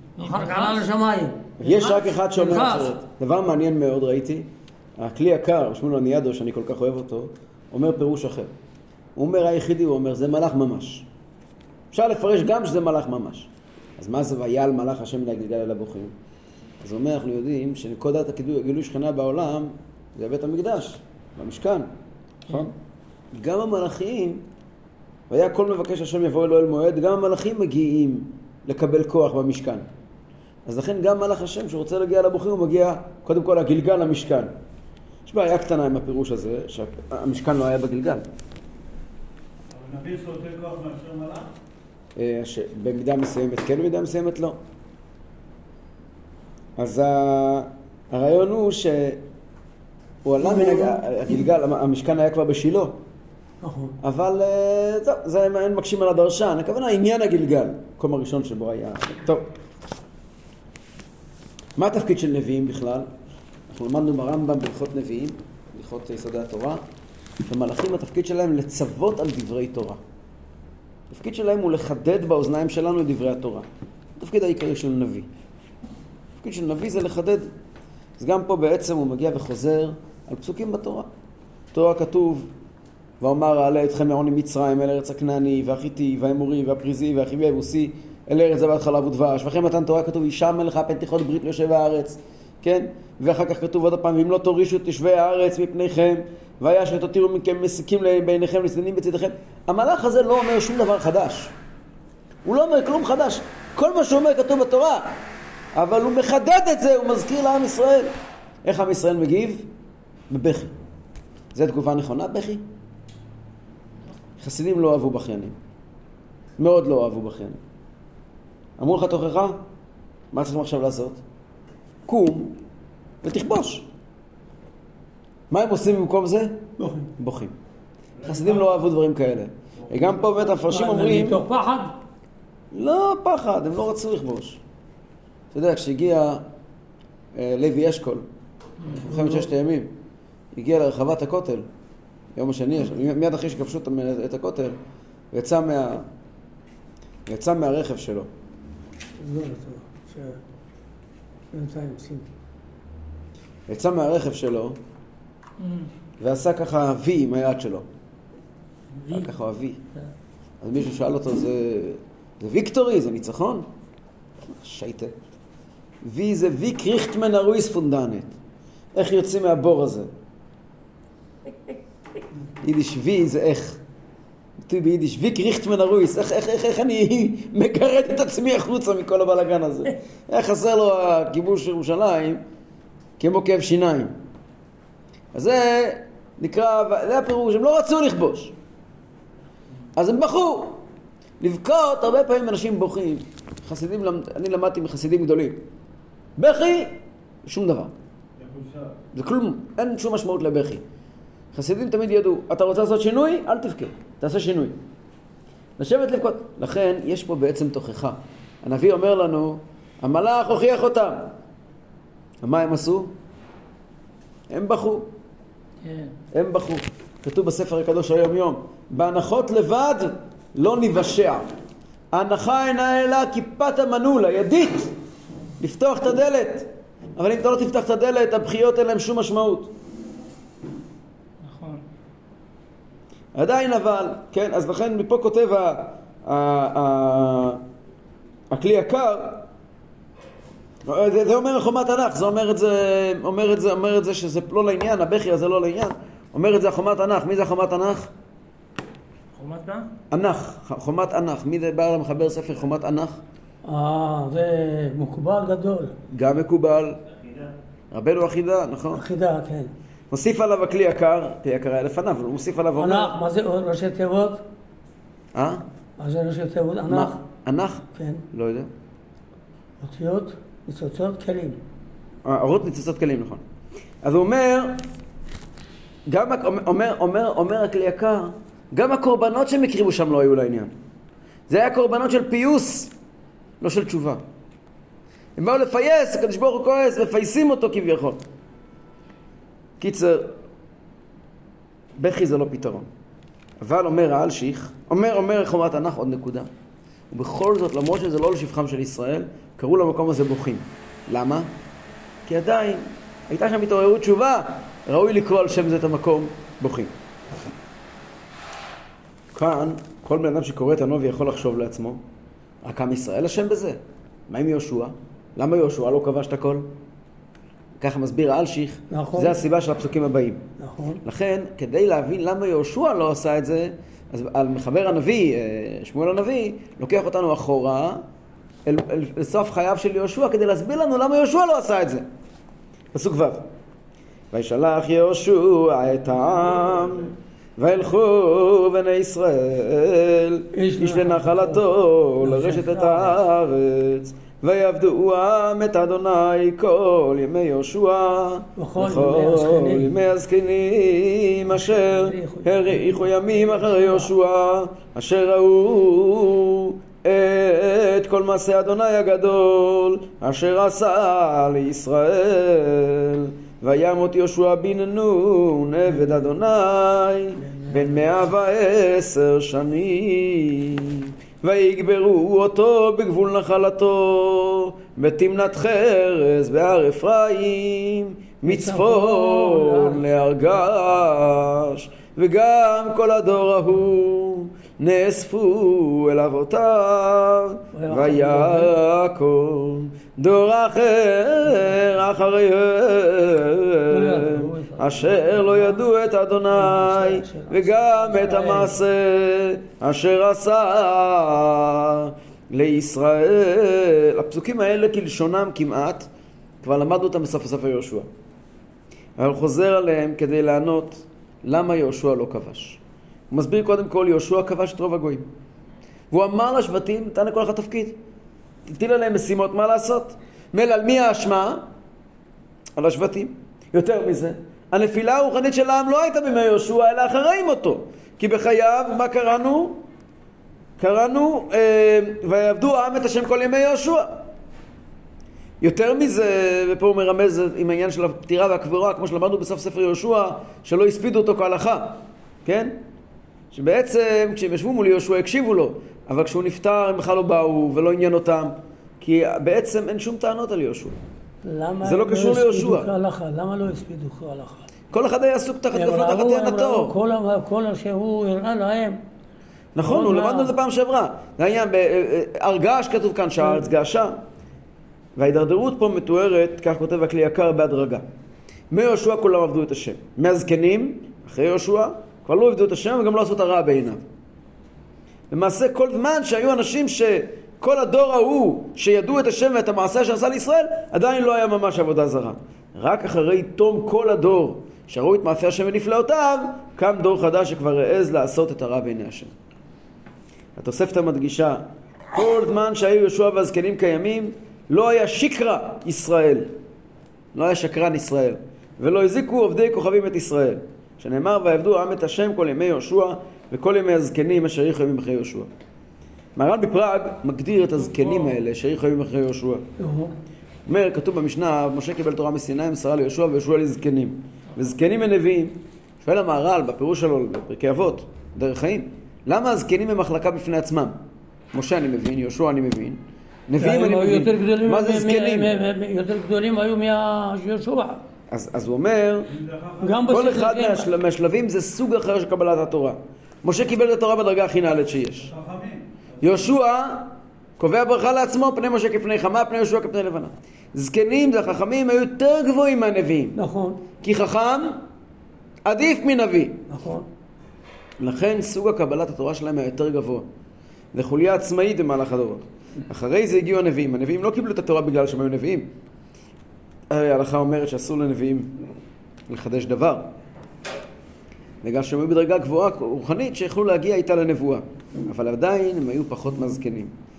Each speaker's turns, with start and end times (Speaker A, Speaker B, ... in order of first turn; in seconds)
Speaker A: 0.2-0.9, 155.6-155.9, 159.0-159.3, 215.8-216.1, 231.4-231.8, 249.3-249.9
Speaker B: 0.2-2.9, 50.4-51.5, 53.6-53.9, 126.8-127.1, 130.7-132.0, 139.1-139.5, 149.2-150.4, 151.5-152.3, 253.6-255.9, 258.9-259.7, 262.8-264.4, 266.0-267.2, 267.9-268.2, 269.8-271.6, 318.9-319.4, 320.6-321.0, 340.5-341.6, 342.2-343.2, 348.6-349.9, 351.5-354.1, 367.4-368.3, 378.4-380.0, 387.7-388.7, 393.9-395.9, 396.5-398.8, 451.4-454.7, 455.7-459.0, 459.8-460.5, 509.8-510.1, 523.6-528.0, 529.8-530.9, 543.4-543.8, 546.7-547.1
Speaker C: 1.6-8.5, 9.2-11.1, 11.9-16.1, 16.8-21.9, 22.5-22.7, 23.4-24.4, 25.3-29.9, 30.6-34.5, 35.2-38.2, 42.1-44.5, 46.8-49.2, 50.2-53.0, 54.0-59.4, 61.8-63.1, 63.7-66.8, 67.4-70.0, 71.1-73.7, 74.2-75.3, 76.4-77.5, 78.2-81.1, 81.7-82.5, 83.2-101.5, 102.4-105.2, 105.8-108.1, 108.6-109.7, 110.3-110.7, 111.5-112.6, 114.4-115.5, 116.6-117.6, 118.8-119.6, 120.3-121.2, 122.0-122.5, 123.2-123.8, 125.5-126.6, 127.2-127.5, 128.2-131.4, 132.7-134.6, 135.5-136.4, 137.3-138.2, 139.0-139.9, 140.5-141.7, 142.3-144.8, 145.3-146.0, 147.3-148.3, 153.7-154.8, 156.2-157.8, 159.1-159.8, 160.6-163.7, 164.5-165.2, 166.0-168.3, 168.9-170.1, 172.6-173.8, 174.6-182.4, 183.2-184.1, 185.3-188.5, 190.0-190.8, 191.4-195.6, 196.4-197.9, 199.1-200.8, 201.5-204.8, 205.8-211.3, 212.4-213.1, 214.5-215.1, 216.3-221.4, 222.1-224.9, 225.6-229.7, 233.3-237.6, 238.5-239.4, 240.9-248.1, 250.1-253.2, 256.1-257.0, 257.9-259.0, 260.1-263.1, 265.3-265.6, 266.9-268.7, 272.2-273.4, 274.0-274.8, 276.1-280.7, 281.5-282.9, 283.6-284.2, 285.4-288.2, 289.8-290.4, 292.0-292.9, 293.6-296.5, 297.1-301.5, 302.2-306.9, 309.3-312.0, 312.6-316.7, 317.8-320.4, 321.0-328.0, 328.6-332.0, 332.9-333.4, 334.3-406.1, 406.6-408.1, 409.2-412.8, 413.3-415.2, 416.1-417.9, 418.7-421.6, 422.8-429.8, 430.8-434.1, 435.6-442.7, 443.5-450.9, 451.8-452.9, 454.9-457.0, 459.7-464.2, 465.1-468.0, 468.7-474.0, 475.3-489.3, 490.6-496.5, 497.3-505.5, 506.4-509.6, 510.7-521.0, 521.5-525.5, 528.3-529.4, 530.1-535.3, 536.2-543.4, 544.0-544.8, 545.6-546.6, 548.0-550.2, 550.9-555.7, 556.9-558.5, 559.3-560.1, 561.6-566.9
Speaker D: 39.7-41.5, 198.4-199.0, 529.3-530.0, 535.2-535.8